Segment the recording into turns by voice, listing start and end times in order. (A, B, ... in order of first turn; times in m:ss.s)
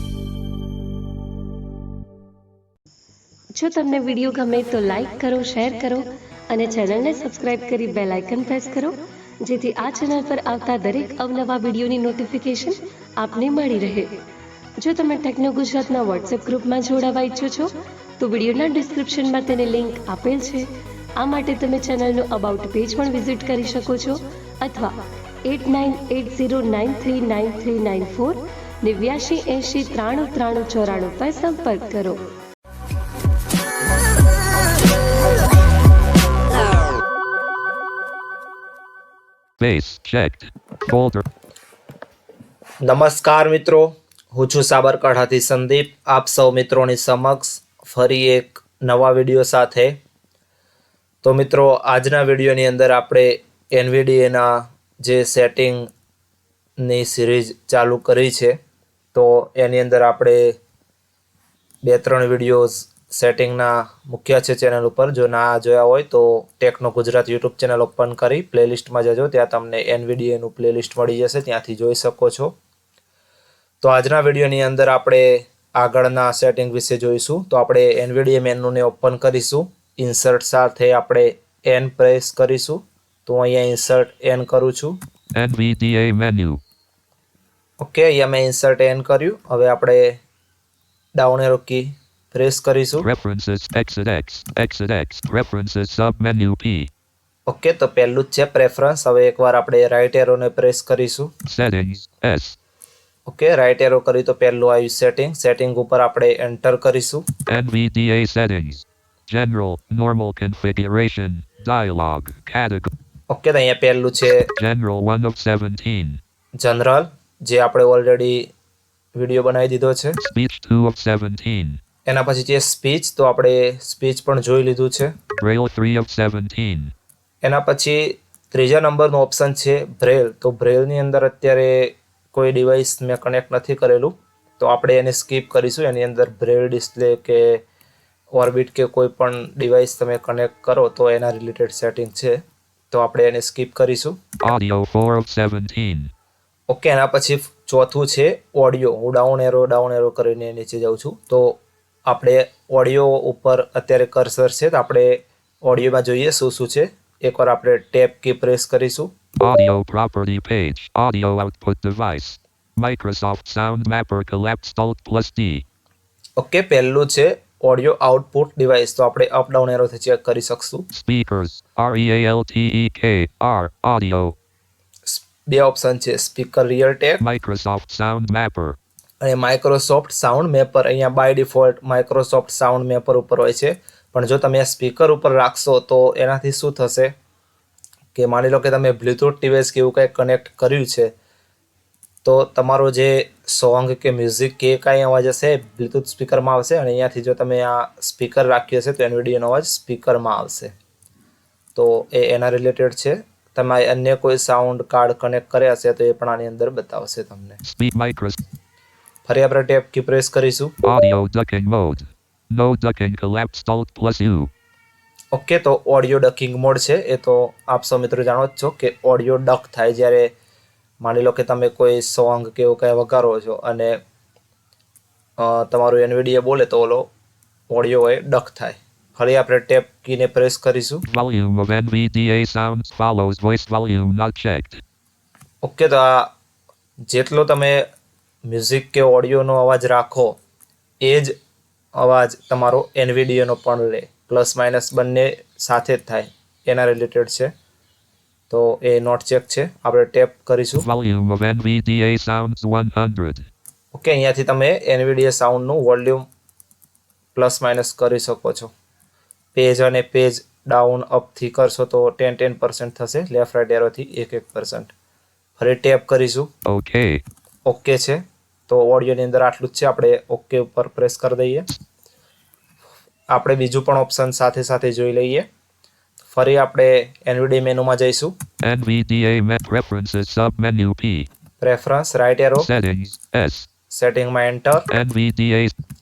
0:03.6-0:14.1 A
0:14.8-0:20.6 A
0:21.2-0:32.2 A
0:39.6-0:41.2 B
0:42.8-0:50.0 C
0:51.2-0:55.9 C
0:56.8-0:58.6 C
0:59.1-1:00.5 C
1:01.8-1:12.5 C
1:13.8-1:25.0 C
1:25.3-1:26.6 B
1:27.8-1:30.2 C
1:31.1-1:33.1 C
1:33.0-1:36.9 B
1:37.5-1:41.3 C
1:41.5-1:42.6 B
1:43.3-1:47.2 C
1:47.5-1:52.9 B
1:53.3-1:54.5 C
1:54.6-1:56.2 B
1:56.6-1:58.5 C
1:59.2-2:00.2 C
2:00.2-2:01.8 B
2:02.1-2:05.1 C
2:05.4-2:06.9 B
2:07.4-2:17.6 C
2:18.3-2:22.4 C
2:22.9-2:24.2 C
2:24.4-2:26.1 B
2:26.7-2:39.1 C
2:39.4-2:45.6 B
2:46.4-2:50.8 C
2:50.9-2:54.3 B
2:55.0-2:57.2 C
2:57.2-2:58.8 B
2:59.2-3:07.1 C
3:08.1-3:11.1 C
3:12.2-3:20.7 C
3:21.7-3:27.6 C
3:27.6-3:28.4 B
3:29.2-3:30.7 C
3:30.8-3:34.5 B
3:35.3-3:40.3 C
3:41.0-3:44.0 C
3:45.4-3:47.1 C
3:47.7-3:51.0 C
3:51.1-3:54.8 B
3:55.6-3:56.3 C
3:57.1-3:57.8 C
3:58.5-4:00.4 C
4:01.0-4:01.3 C
4:02.0-4:07.5 C
4:08.5-4:10.8 C
4:10.8-4:13.5 B
4:13.9-4:16.2 C
4:17.3-4:18.7 C
4:19.5-4:24.9 C
4:25.6-4:26.5 C
4:26.7-4:27.2 B
4:27.7-4:31.7 C
4:33.3-4:35.4 C
4:36.3-4:38.3 C
4:38.6-4:41.3 B
4:41.6-4:42.7 C
4:42.6-4:43.7 B
4:43.9-4:44.8 C
4:44.9-4:45.7 B